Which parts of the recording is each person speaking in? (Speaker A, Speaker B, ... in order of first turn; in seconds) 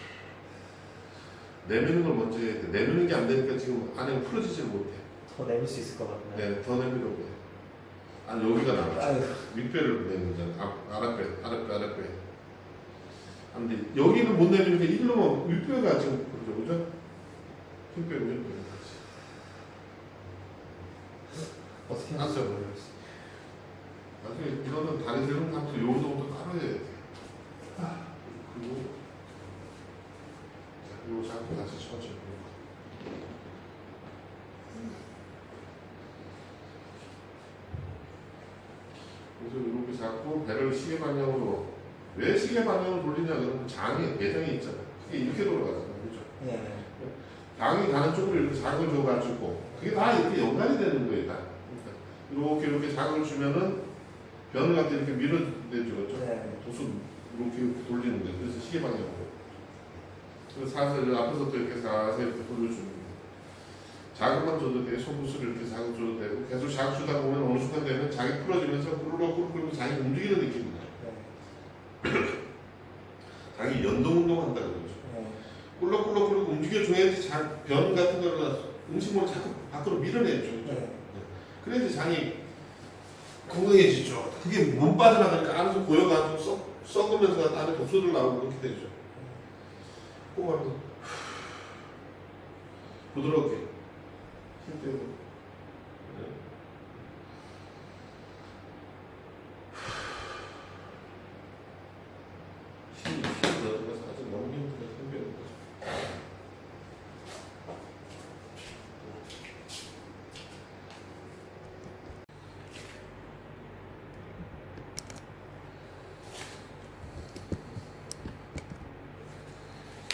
Speaker A: 1.6-5.0, 6.3-7.4, 8.2-12.2, 13.5-16.9, 17.9-19.0, 22.1-22.6, 24.2-27.1, 28.2-28.9, 30.8-32.5, 39.4-46.3, 47.0-53.9, 54.5-59.4, 60.5-63.2, 64.1-70.9, 72.0-72.4, 73.5-75.0, 75.8-82.4, 83.4-89.0, 90.3-91.2, 93.1-93.7, 94.6-95.2, 96.0-96.4, 102.9-106.0
Speaker B: 5.3-6.5, 8.9-9.4, 21.9-22.9, 46.4-46.9, 49.7-50.1, 56.1-56.6, 71.0-71.3, 75.0-75.4, 80.6-81.0, 89.2-89.4